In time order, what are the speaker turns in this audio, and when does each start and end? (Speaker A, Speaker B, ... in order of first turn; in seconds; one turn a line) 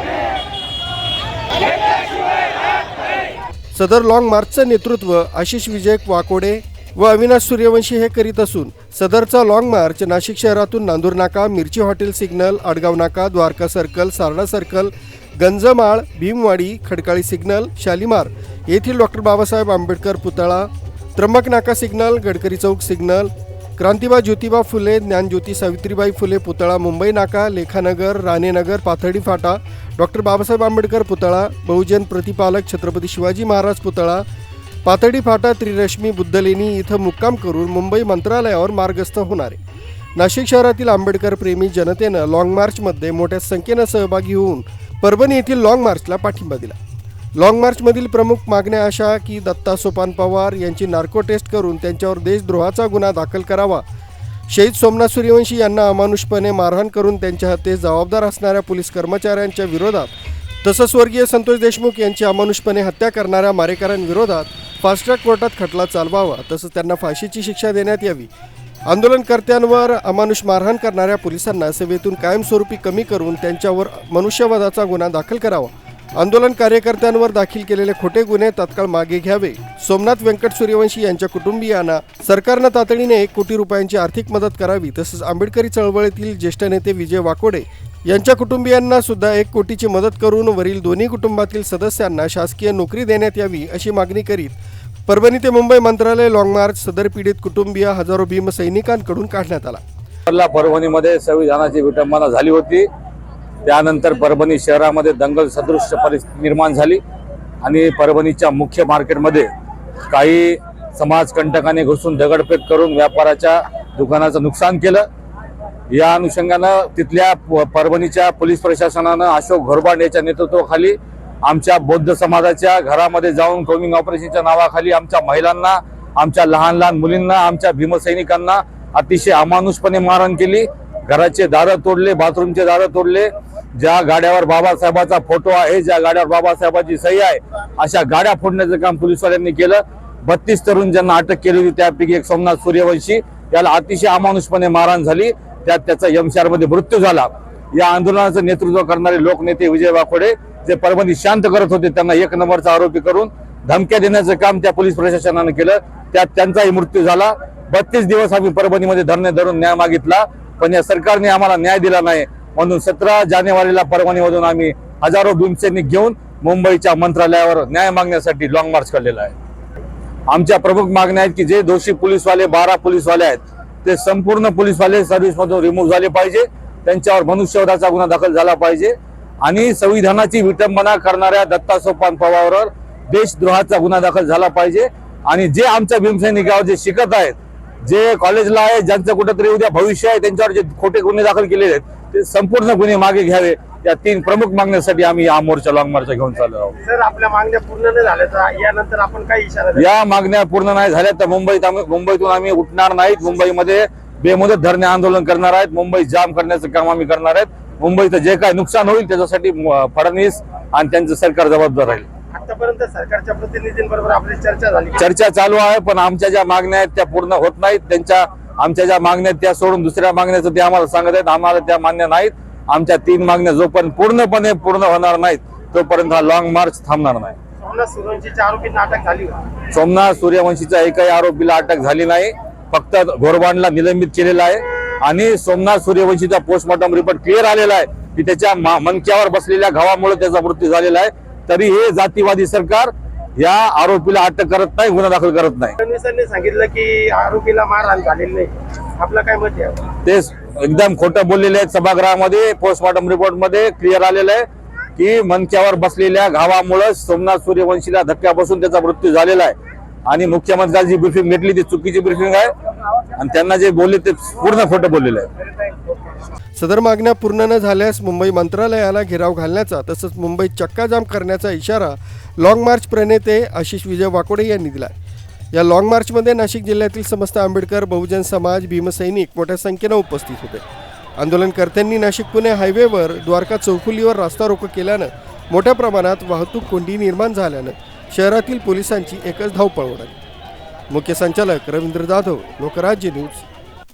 Speaker A: 3.7-34.2
Speaker A: 34.8-39.6
Speaker A: 40.2-46.8
Speaker A: 47.4-53.8
Speaker A: 54.5-68.3
Speaker A: 68.9-94.5
Speaker A: 95.1-99.8
Speaker B: 100.3-102.9
Speaker B: 103.6-107.0
Speaker B: 107.6-109.5
Speaker B: 110.1-115.0
Speaker B: 115.9-169.3
Speaker B: 170.3-196.8
Speaker C: 196.8-199.8
Speaker B: 199.7-212.1
Speaker C: 212.3-215.0
Speaker B: 215.0-227.3
Speaker C: 227.6-229.5
Speaker B: 229.7-245.7
Speaker C: 245.8-249.9
Speaker B: 250.0-254.4
Speaker B: 254.9-259.5
Speaker B: 260.1-262.5
Speaker B: 263.2-265.3
Speaker A: 266.6-274.9
Speaker A: 275.5-280.6
Speaker A: 281.2-290.2
Speaker A: 290.9-293.4